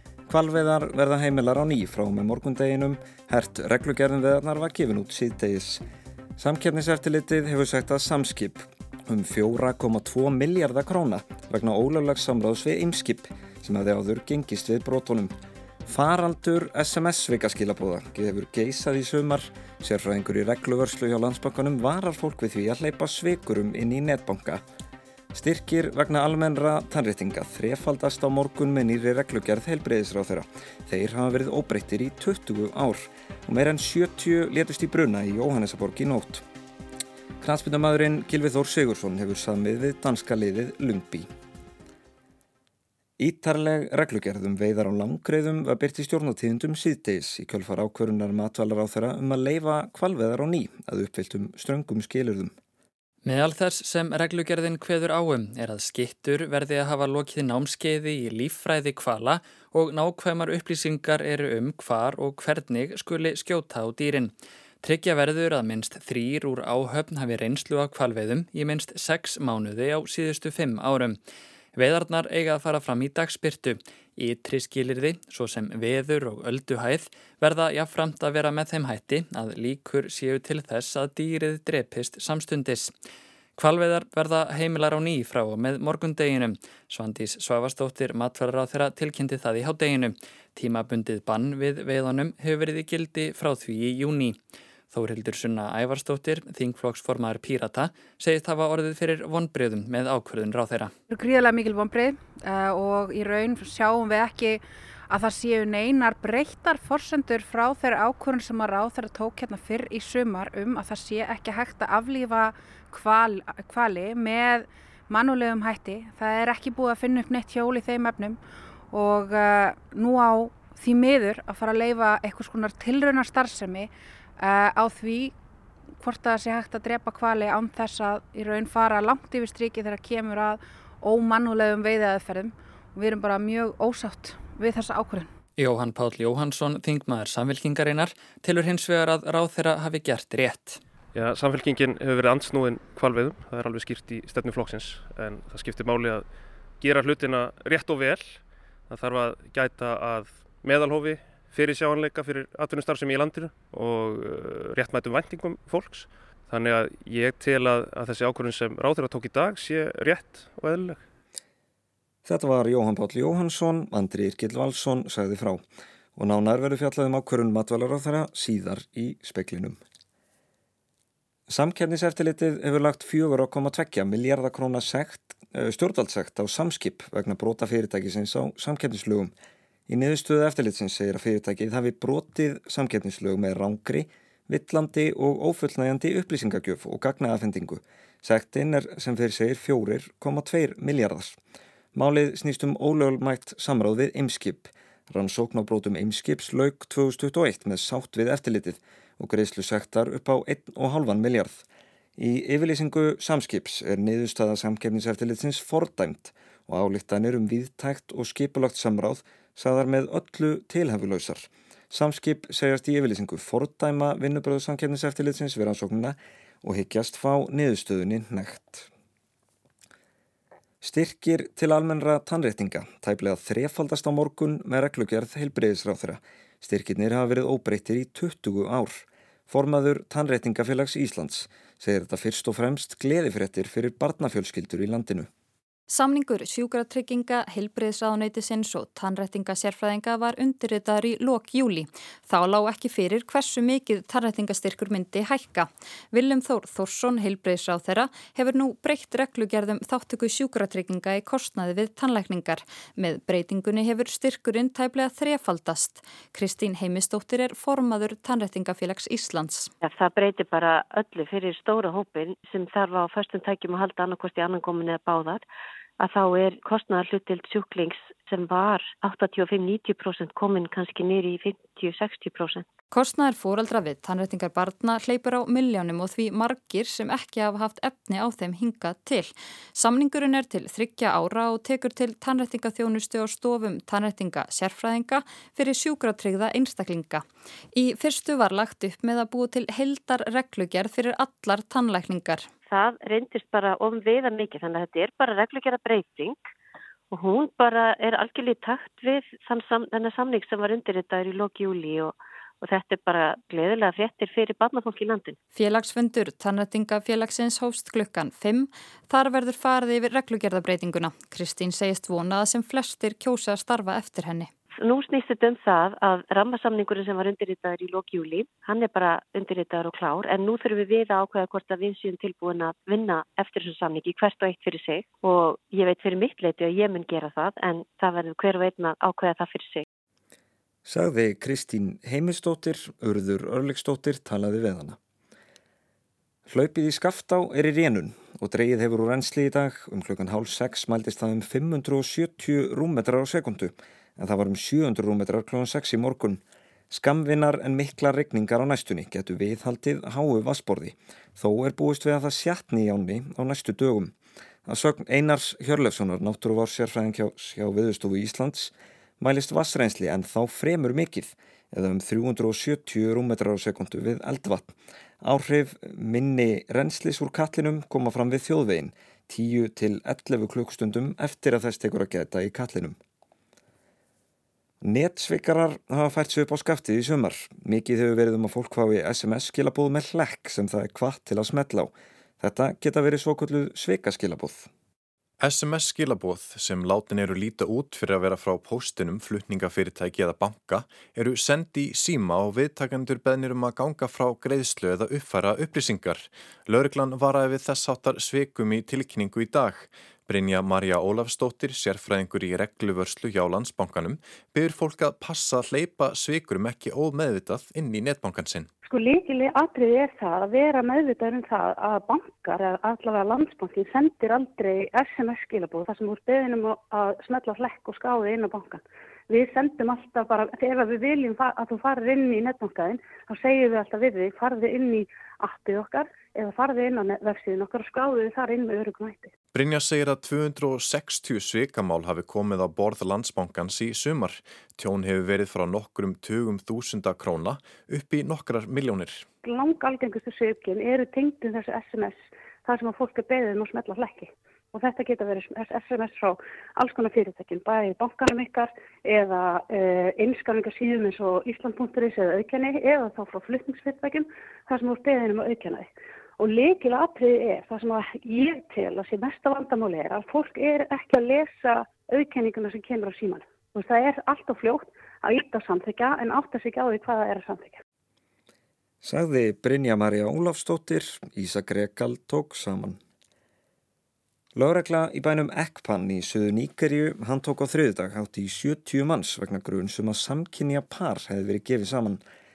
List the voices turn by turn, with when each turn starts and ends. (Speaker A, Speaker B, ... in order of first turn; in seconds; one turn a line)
Speaker A: 0.3-5.8
Speaker A: 6.4-15.3
Speaker A: 15.9-24.6
Speaker A: 25.3-36.4
Speaker A: 37.4-41.3
Speaker A: 43.2-52.5
Speaker B: 53.2-71.2
Speaker B: 71.8-82.9
Speaker B: 83.6-94.4
Speaker B: 94.9-100.9
Speaker C: 101.1-118.4
Speaker C: 118.9-125.3
Speaker C: 126.0-135.3
Speaker B: 135.6-140.8
Speaker D: 141.1-161.0
Speaker A: 162.2-165.6
Speaker A: 166.2-169.8
Speaker A: 171.5-179.3
Speaker A: 179.9-191.4
Speaker A: 191.9-201.6
Speaker A: 202.2-218.9
Speaker A: 220.8-235.3
Speaker E: 235.9-259.7
Speaker F: 259.8-265.4
Speaker F: 266.0-272.7
Speaker E: 272.9-292.5
Speaker F: 292.7-296.4
Speaker F: 297.1-305.4
Speaker E: 305.6-314.5
Speaker F: 314.8-329.9
Speaker A: 330.9-335.0
Speaker A: 336.5-354.1
Speaker A: 354.7-373.0
Speaker A: 374.8-384.7
Speaker G: 385.4-408.7
Speaker H: 408.8-429.3
Speaker G: 429.5-439.2
Speaker H: 439.4-467.8
Speaker A: 469.0-473.0
Speaker A: 474.6-482.2